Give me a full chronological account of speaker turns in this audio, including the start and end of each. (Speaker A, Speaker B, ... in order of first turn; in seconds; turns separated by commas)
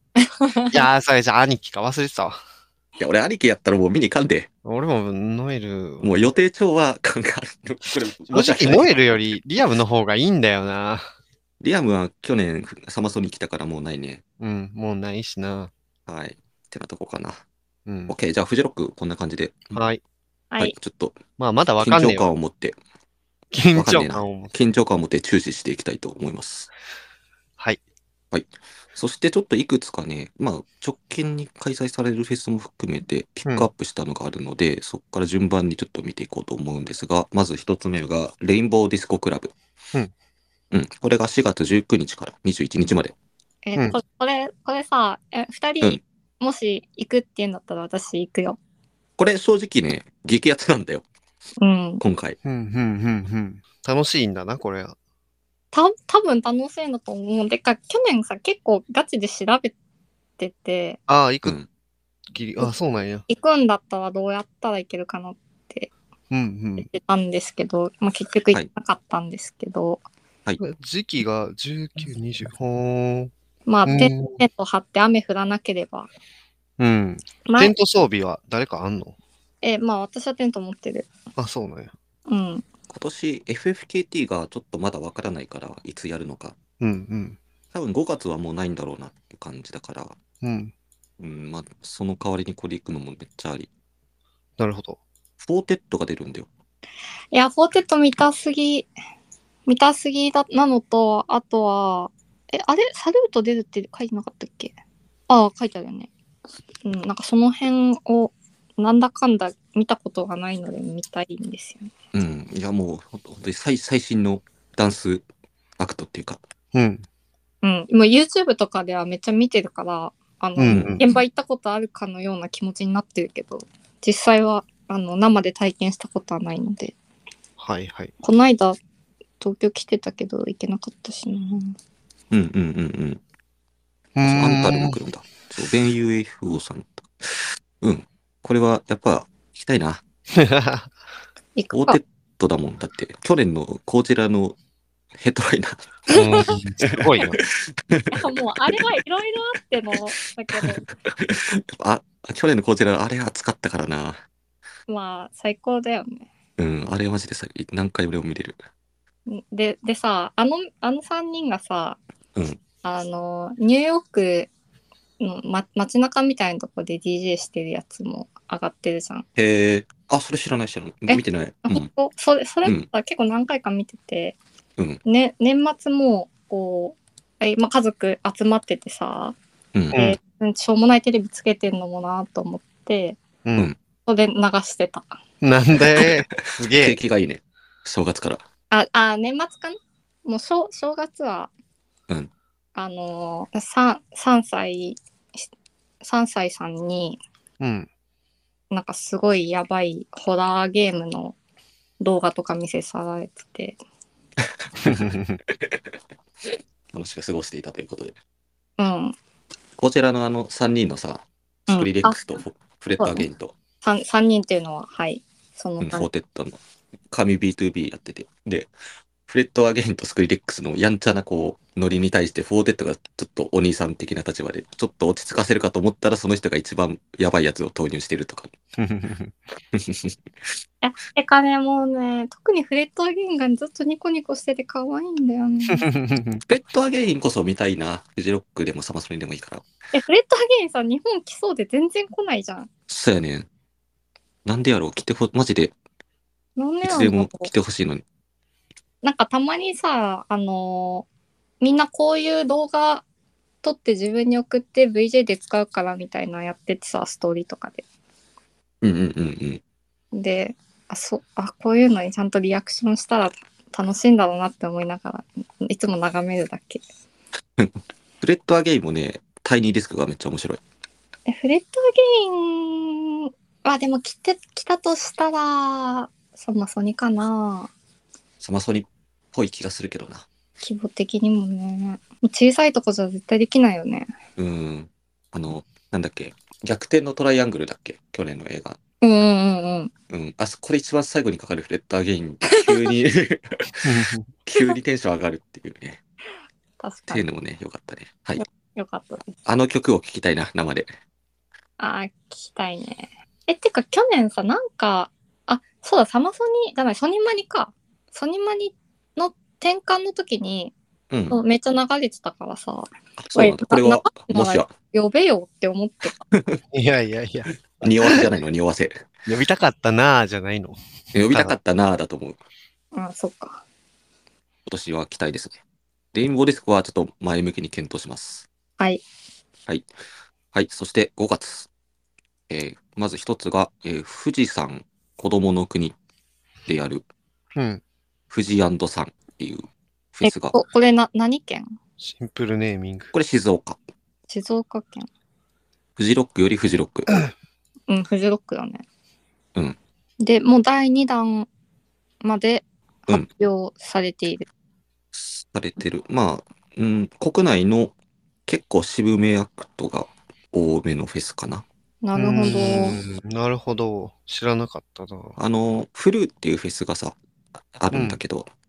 Speaker A: 0.2-0.8, Speaker B: 0.7-2.4, Speaker C: 3.0-4.5, Speaker B: 4.6-6.2, Speaker C: 6.0-9.0, Speaker B: 8.3-11.1, Speaker C: 11.6-14.2, Speaker B: 14.4-15.7, Speaker C: 16.1-17.4, Speaker B: 17.9-18.1, Speaker C: 18.1-19.7, Speaker B: 19.7-20.0, Speaker C: 20.6-21.2, Speaker B: 21.4-22.3, Speaker C: 21.8-22.8, Speaker B: 23.5-24.5, Speaker C: 23.7-26.7, Speaker C: 28.3-39.5, Speaker C: 40.7-43.1, Speaker A: 43.6-48.6, Speaker C: 49.2-51.0, Speaker A: 51.6-52.0, Speaker C: 52.0-52.4, Speaker B: 52.4-55.0, Speaker A: 55.7-59.7, Speaker A: 60.4-61.0, Speaker B: 61.1-61.6, Speaker B: 62.3-63.2, Speaker A: 63.3-65.9, Speaker B: 66.3-66.9, Speaker A: 66.8-70.0, Speaker B: 70.6-73.3, Speaker A: 73.7-76.1, Speaker B: 73.8-74.4, Speaker B: 76.8-79.2, Speaker A: 77.5-77.7, Speaker A: 79.6-81.1, Speaker B: 81.3-81.9, Speaker A: 82.3-82.6, Speaker C: 82.9-86.5, Speaker B: 86.8-87.4, Speaker C: 87.7-90.2, Speaker B: 90.4-90.7, Speaker C: 91.2-93.7, Speaker B: 94.6-95.0, Speaker C: 95.4-96.5, Speaker A: 97.3-98.9, Speaker A: 99.7-104.7, Speaker A: 105.3-106.1, Speaker A: 106.8-111.9, Speaker C: 112.1-115.2, Speaker C: 115.8-116.4, Speaker B: 116.7-117.0, Speaker A: 117.6-127.0, Speaker B: 120.6-121.0, Speaker C: 120.6-121.0, Speaker B: 127.6-128.1, Speaker A: 128.2-128.8, Speaker A: 129.4-131.7, Speaker C: 132.3-133.2, Speaker B: 134.2-135.0, Speaker C: 134.2-140.0, Speaker B: 140.3-140.9, Speaker A: 141.6-142.0, Speaker C: 141.7-144.6, Speaker C: 145.2-146.9, Speaker A: 146.1-146.5, Speaker B: 146.1-147.4, Speaker C: 147.6-148.8, Speaker A: 148.1-150.8, Speaker C: 150.5-154.2, Speaker A: 154.9-156.3, Speaker C: 156.6-158.6, Speaker A: 159.2-162.0, Speaker A: 162.8-164.5, Speaker A: 165.2-169.2, Speaker C: 169.3-171.9, Speaker A: 171.1-174.4, Speaker A: 175.0-179.4, Speaker B: 179.9-180.2, Speaker A: 179.9-183.2, Speaker B: 183.4-183.7, Speaker A: 184.1-185.2, Speaker B: 185.4-187.0, Speaker C: 185.9-188.4, Speaker A: 188.7-191.5, Speaker A: 192.7-195.4, Speaker A: 196.0-197.2, Speaker B: 197.6-197.9, Speaker A: 198.7-201.3, Speaker A: 202.0-203.8, Speaker C: 204.7-205.8, Speaker B: 204.8-205.4, Speaker C: 206.4-208.2, Speaker A: 208.8-209.2, Speaker C: 209.8-213.5, Speaker A: 211.7-212.2, Speaker A: 213.0-213.3, Speaker A: 213.8-216.1, Speaker C: 215.8-216.6, Speaker C: 217.1-218.7, Speaker C: 219.3-228.5, Speaker B: 228.8-229.3, Speaker C: 229.7-230.2, Speaker A: 230.8-235.9, Speaker B: 235.7-236.4, Speaker C: 236.4-239.6, Speaker A: 239.9-242.7, Speaker C: 242.9-243.5, Speaker C: 244.4-245.7, Speaker A: 246.6-247.5, Speaker C: 246.8-248.0, Speaker A: 249.0-251.1, Speaker A: 251.6-253.0, Speaker A: 253.6-257.8, Speaker C: 258.8-259.6, Speaker A: 260.1-266.8, Speaker C: 267.6-270.6, Speaker A: 271.3-277.7, Speaker C: 278.4-280.2, Speaker A: 280.6-284.1, Speaker C: 284.4-288.8, Speaker A: 289.0-289.9, Speaker C: 290.1-293.8, Speaker A: 292.4-292.9, Speaker B: 293.8-294.3, Speaker C: 294.4-296.0, Speaker A: 296.8-297.2, Speaker C: 297.1-298.4, Speaker A: 298.4-299.3, Speaker C: 299.4-300.9, Speaker A: 301.8-310.7, Speaker C: 311.1-311.4, Speaker A: 311.3-316.2, Speaker C: 313.2-314.7, Speaker C: 316.3-316.6, Speaker B: 316.7-318.2, Speaker C: 317.8-319.1, Speaker B: 319.3-320.8, Speaker C: 321.1-322.4, Speaker A: 322.9-323.6, Speaker C: 324.7-325.6, Speaker C: 326.1-328.5, Speaker C: 330.5-331.7, Speaker C: 332.5-335.9, Speaker C: 336.6-337.0, Speaker B: 337.5-337.8, Speaker C: 338.3-340.6, Speaker A: 340.2-341.8, Speaker B: 342.0-343.1, Speaker C: 343.1-343.8, Speaker A: 344.3-345.1, Speaker C: 346.0-347.2, Speaker A: 347.9-348.8, Speaker A: 350.2-351.5, Speaker A: 352.2-354.5, Speaker C: 355.1-357.9, Speaker C: 358.5-361.6, Speaker A: 362.0-363.0, Speaker B: 362.1-365.4, Speaker C: 365.4-367.2, Speaker C: 367.7-368.5, Speaker B: 367.9-368.2